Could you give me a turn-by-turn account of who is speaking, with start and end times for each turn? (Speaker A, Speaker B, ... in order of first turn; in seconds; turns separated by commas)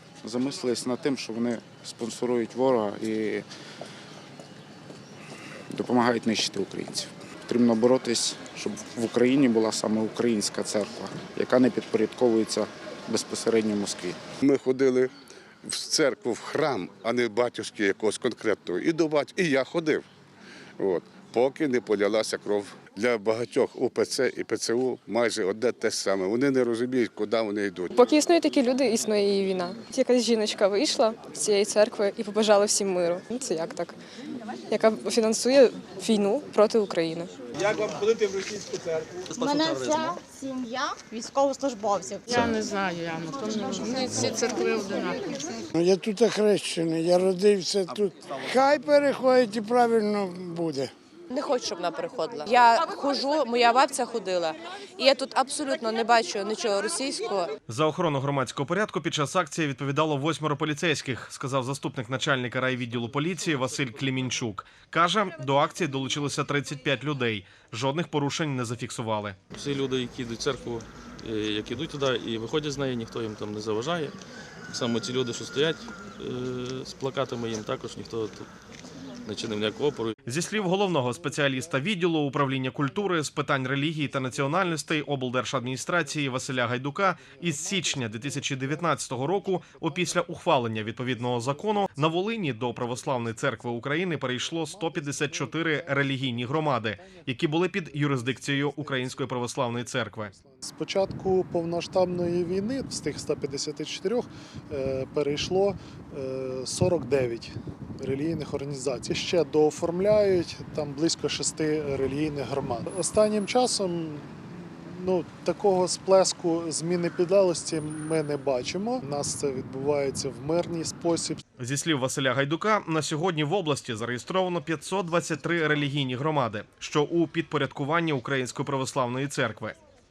Speaker A: 0.2-3.5, Speaker A: 5.7-14.2, Speaker B: 14.4-15.1, Speaker B: 15.6-20.0, Speaker B: 20.8-27.9, Speaker C: 27.9-34.0, Speaker C: 34.7-37.3, Speaker D: 39.3-40.2, Speaker E: 39.4-42.2, Speaker F: 42.3-45.6, Speaker G: 45.7-50.9, Speaker H: 51.3-57.5, Speaker I: 57.7-69.4, Speaker D: 69.5-74.2, Speaker D: 74.7-78.5, Speaker D: 79.2-80.1, Speaker I: 80.2-100.3, Speaker J: 80.3-81.9, Speaker J: 84.0-121.4, Speaker I: 121.6-129.8